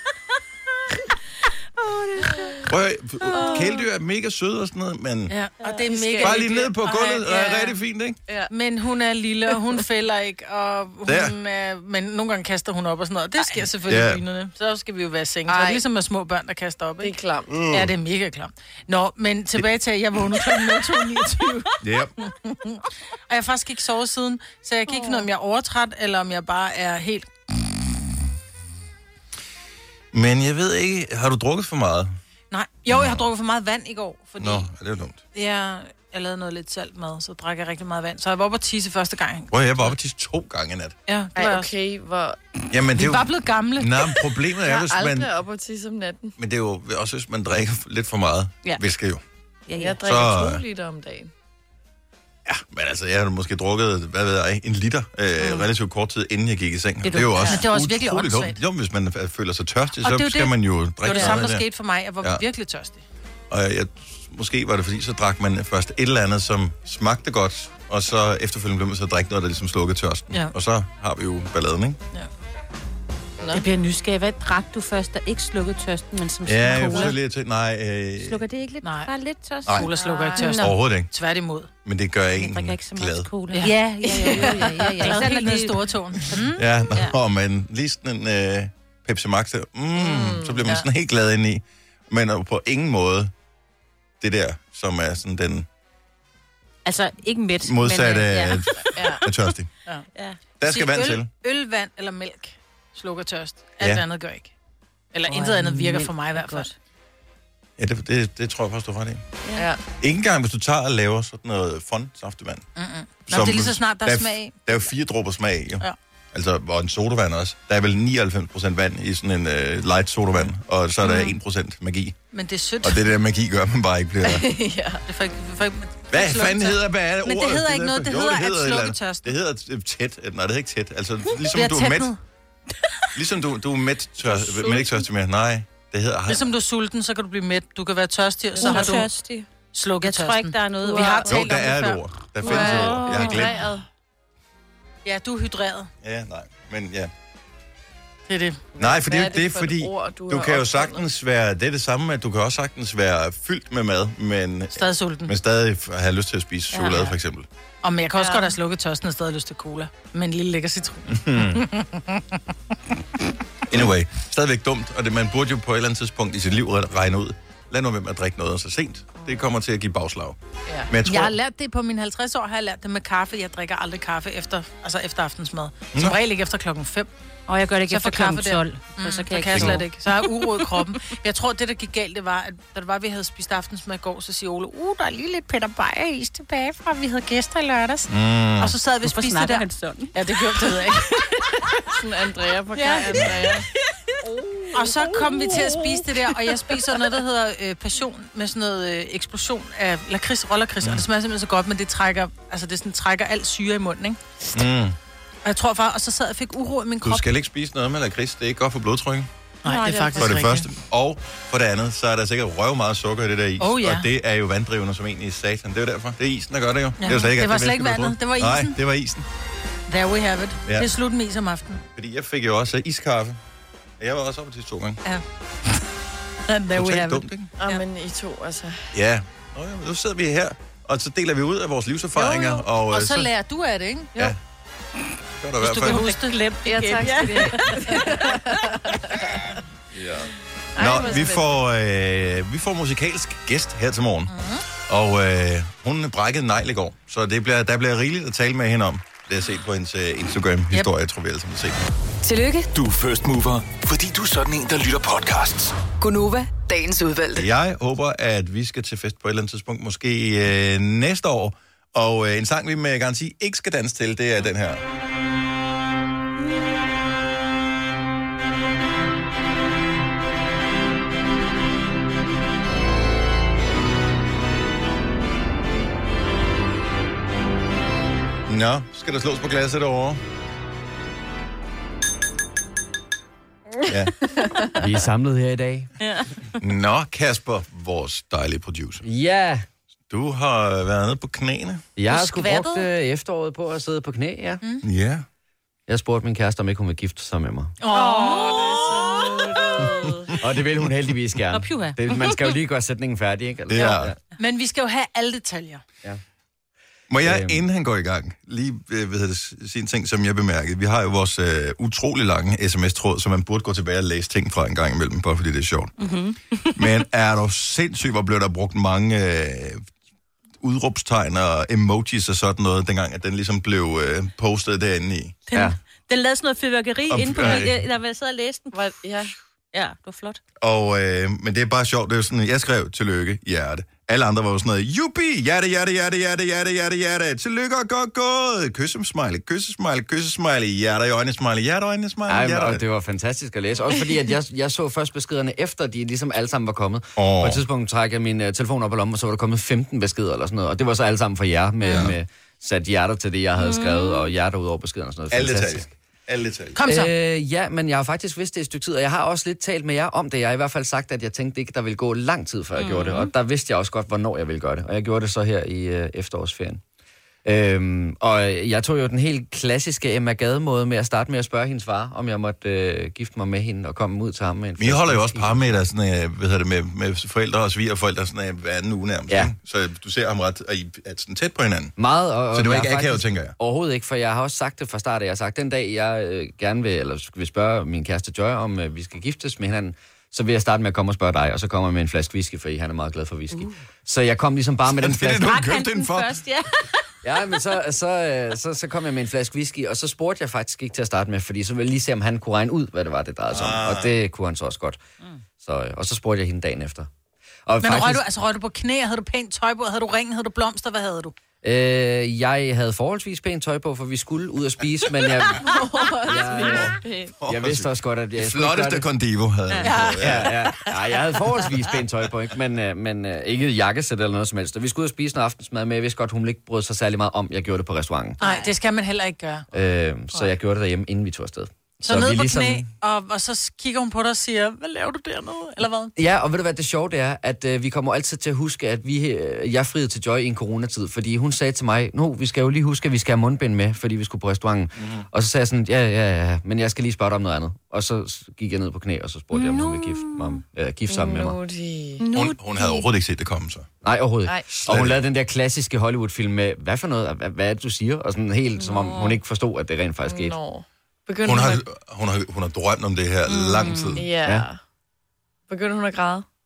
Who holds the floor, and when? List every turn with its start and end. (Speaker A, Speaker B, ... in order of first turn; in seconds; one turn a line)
Speaker A: 1.8-2.7
Speaker B: 2.6-5.3
Speaker A: 3.3-3.8
Speaker C: 5.3-7.8
Speaker D: 5.8-6.5
Speaker B: 6.2-8.2
Speaker C: 8.5-27.3
Speaker B: 11.1-11.3
Speaker B: 13.8-14.2
Speaker D: 15.5-15.8
Speaker D: 17.0-17.6
Speaker B: 17.5-17.9
Speaker B: 21.8-22.1
Speaker B: 30.1-32.1
Speaker C: 32.5-34.7
Speaker B: 32.9-33.2
Speaker B: 34.4-35.2
Speaker C: 35.3-39.9
Speaker B: 39.5-41.0
Speaker C: 41.1-41.7
Speaker D: 41.3-42.4
Speaker B: 42.7-45.3
Speaker C: 42.9-44.3
Speaker D: 44.6-46.3
Speaker B: 46.4-49.2
Speaker A: 49.7-50.0
Speaker D: 49.8-51.3
Speaker B: 50.0-50.6
Speaker B: 52.5-61.6
Speaker A: 55.4-55.7
Speaker A: 57.0-57.6
Speaker C: 57.4-58.6
Speaker C: 60.0-63.0
Speaker B: 63.5-72.0
Speaker A: 73.5-77.2
Speaker B: 76.5-78.4
Speaker A: 78.2-80.8
Speaker C: 78.8-79.1
Speaker C: 79.7-81.7
Speaker D: 80.0-80.6
Speaker B: 80.6-81.1
Speaker B: 81.8-83.3
Speaker A: 82.4-85.8
Speaker C: 83.5-86.7
Speaker D: 84.2-84.8
Speaker A: 86.3-87.1
Speaker B: 86.5-93.3
Speaker D: 90.0-90.8
Speaker B: 94.2-95.7
Speaker A: 96.8-99.1
Speaker B: 97.6-99.7
Speaker D: 98.9-99.3
Speaker B: 100.6-101.3
Speaker C: 100.6-104.5
Speaker C: 105.1-106.7
Speaker A: 105.3-106.7
Speaker B: 107.8-109.2
Speaker D: 109.5-109.8
Speaker B: 110.0-112.6
Speaker C: 112.8-114.5
Speaker B: 113.3-122.2
Speaker C: 121.0-121.3
Speaker C: 122.3-123.0
Speaker B: 122.8-124.5
Speaker D: 124.2-125.0
Speaker C: 125.1-129.3
Speaker B: 126.1-132.1
Speaker C: 131.5-132.2
Speaker B: 133.1-136.5
Speaker D: 134.2-135.0
Speaker C: 136.3-139.1
Speaker A: 138.5-139.5
Speaker D: 138.6-139.0
Speaker C: 139.7-142.7
Speaker A: 140.0-141.4
Speaker D: 140.8-141.4
Speaker B: 141.3-143.6
Speaker D: 142.4-143.8
Speaker A: 142.4-143.5
Speaker C: 145.0-145.9
Speaker B: 146.0-147.1
Speaker C: 148.3-148.6
Speaker D: 148.7-151.1
Speaker B: 148.8-157.4
Speaker C: 154.7-155.3
Speaker C: 157.8-162.4
Speaker D: 158.2-158.5
Speaker B: 161.1-161.7
Speaker B: 163.7-170.4
Speaker B: 170.9-171.3
Speaker C: 171.0-177.1
Speaker A: 177.5-179.9
Speaker C: 177.9-191.5
Speaker B: 179.5-179.8
Speaker B: 188.1-188.7
Speaker A: 189.0-190.2
Speaker D: 191.9-193.7
Speaker C: 192.8-193.4
Speaker A: 194.6-196.8
Speaker C: 194.7-204.2
Speaker B: 204.5-205.0
Speaker C: 205.4-207.2
Speaker B: 207.0-209.3
Speaker C: 209.6-210.7
Speaker D: 209.6-210.4
Speaker B: 210.2-219.2
Speaker C: 213.6-214.1
Speaker C: 217.0-218.8
Speaker C: 219.9-221.8
Speaker B: 221.9-223.4
Speaker B: 224.0-225.0
Speaker C: 225.0-225.8
Speaker C: 226.5-227.8
Speaker B: 226.7-227.5
Speaker D: 227.6-228.9
Speaker B: 228.9-233.3
Speaker C: 232.1-234.2
Speaker B: 235.4-236.1
Speaker C: 235.6-238.4
Speaker A: 235.8-238.0
Speaker D: 236.6-239.4
Speaker B: 239.9-244.3
Speaker D: 240.7-241.5
Speaker C: 244.3-244.6
Speaker B: 244.8-251.8
Speaker E: 252.2-252.7
Speaker F: 252.7-255.8
Speaker E: 256.0-257.5
Speaker B: 257.3-264.8
Speaker B: 278.5-280.2
Speaker B: 283.9-284.2
Speaker G: 284.7-285.9
Speaker A: 286.0-286.3
Speaker B: 286.6-289.1
Speaker G: 289.0-289.6
Speaker B: 290.1-291.9
Speaker G: 292.0-294.6
Speaker A: 292.0-292.9
Speaker C: 294.6-294.9
Speaker B: 294.8-295.2
Speaker G: 295.9-297.7
Speaker C: 297.8-298.8
Speaker D: 297.9-300.0
Speaker A: 298.0-300.4
Speaker G: 300.4-304.2
Speaker A: 301.5-302.5
Speaker B: 303.7-304.1
Speaker C: 304.4-305.8
Speaker B: 307.1-315.9
Speaker G: 307.2-307.6
Speaker A: 316.0-316.9
Speaker B: 316.8-319.8
Speaker B: 320.6-325.4
Speaker A: 325.5-328.9
Speaker B: 327.1-327.8
Speaker D: 328.7-329.3
Speaker A: 329.7-330.4
Speaker B: 330.6-342.8
Speaker G: 342.3-355.9
Speaker B: 347.2-347.6
Speaker A: 353.6-354.3
Speaker B: 355.3-356.8
Speaker C: 356.7-357.1
Speaker G: 356.8-366.8
Speaker A: 362.7-363.3
Speaker G: 367.4-375.8
Speaker B: 374.8-382.0
Speaker G: 382.0-395.5
Speaker B: 382.5-383.5
Speaker B: 395.0-396.4
Speaker A: 395.4-397.0
Speaker G: 397.2-405.0
Speaker B: 403.5-404.1
Speaker G: 405.6-407.1
Speaker G: 407.6-408.2
Speaker C: 407.8-411.3
Speaker G: 411.6-419.1
Speaker D: 415.6-417.3
Speaker B: 416.4-420.6
Speaker C: 419.8-420.4
Speaker A: 419.8-420.1
Speaker G: 420.2-428.4
Speaker A: 428.4-428.7
Speaker C: 428.4-429.6
Speaker G: 429.7-432.9
Speaker C: 432.0-436.1
Speaker G: 436.1-451.6
Speaker B: 445.0-445.2
Speaker A: 449.5-450.6
Speaker D: 451.1-452.2
Speaker A: 452.2-453.1
Speaker B: 452.3-453.9
Speaker G: 454.0-460.6
Speaker B: 454.7-455.2
Speaker A: 458.8-459.4
Speaker D: 460.2-461.8
Speaker B: 461.4-464.2
Speaker A: 463.5-464.2
Speaker D: 464.1-464.8
Speaker G: 464.4-464.7
Speaker D: 465.7-466.4